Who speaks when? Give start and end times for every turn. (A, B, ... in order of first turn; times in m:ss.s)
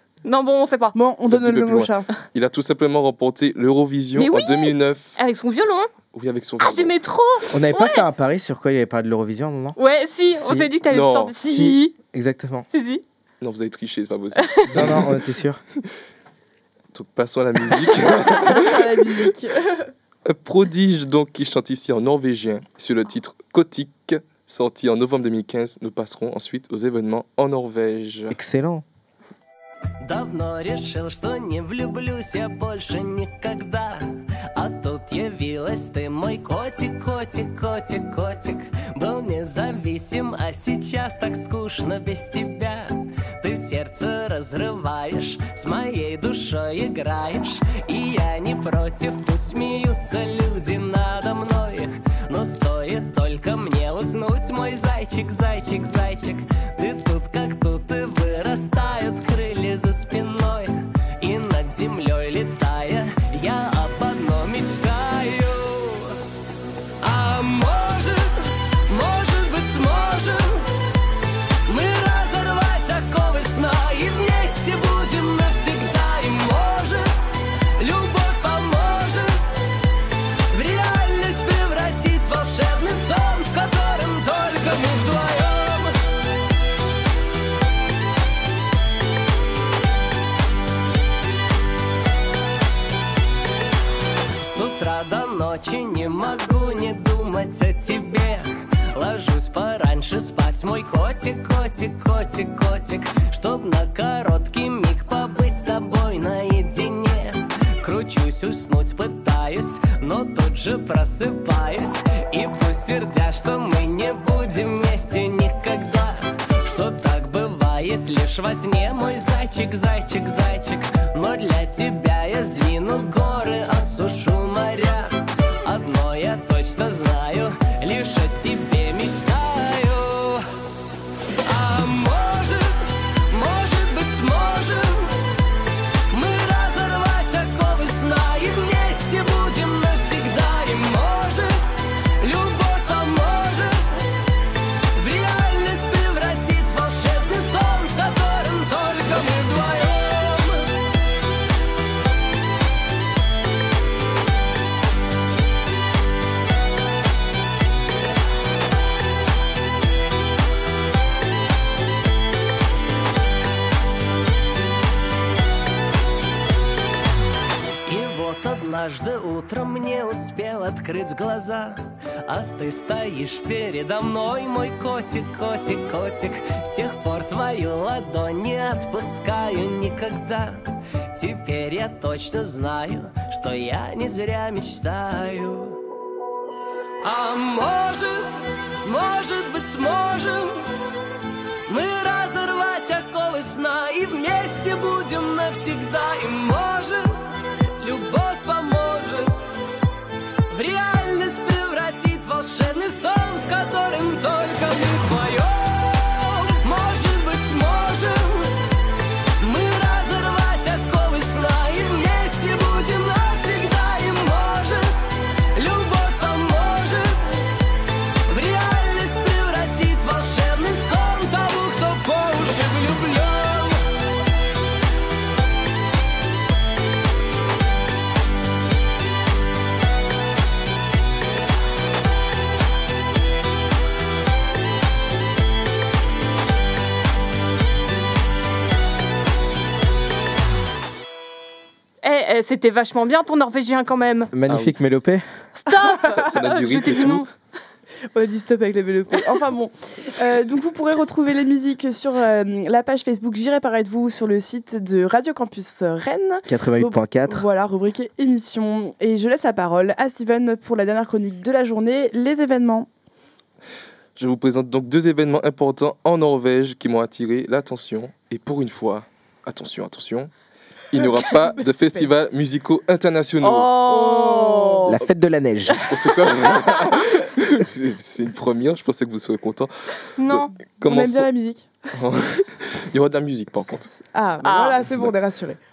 0:00.2-0:01.0 A
0:00.9-0:02.1 B
0:01.3-0:05.2 C
0:04.2-0:05.9 A
0:06.1-0:06.9 C
0:06.6-0:08.0 A
0:07.5-0:09.8 D
0:09.8-0:11.9 A
0:10.4-0:10.7 D
0:10.9-0:11.3 C
0:11.4-0:12.6 D
0:12.7-0:13.0 A
0:13.4-0:15.2 C
0:14.4-0:14.7 A
0:14.7-0:15.6 D
0:16.9-0:19.2 C
0:18.5-0:19.9 B
0:20.2-0:28.4 C
0:28.3-0:28.8 D
0:30.0-1:06.2 E
1:07.0-1:10.7 E
1:11.6-1:17.1 E
1:17.8-1:19.6 E
1:20.5-1:26.0 E
1:34.4-2:10.5 E
2:11.4-2:15.2 E
2:16.1-2:21.6 E
2:22.2-2:24.0 E
2:24.9-2:30.7 E
2:47.9-3:05.8 E
3:07.0-3:10.7 E
3:11.7-3:17.3 E
3:17.8-3:19.5 E
3:20.5-3:28.6 E
3:29.4-3:37.5 E
3:38.3-3:43.9 E
4:02.0-4:04.3 A
4:04.3-4:05.2 D
4:04.5-4:04.7 C
4:05.6-4:07.3 A
4:06.0-4:07.3 C
4:08.1-4:22.9 B
4:16.5-4:17.5 D
4:24.2-4:30.3 C
4:30.9-4:33.8 C
4:31.6-4:32.1 B
4:33.4-4:35.0 A
4:33.8-4:35.0 B
4:34.9-4:35.9 D
4:35.8-4:41.3 C
4:40.2-4:40.5 A
4:40.8-4:41.7 B
4:42.0-4:44.0 C
4:44.0-4:45.6 B
4:44.4-4:44.8 A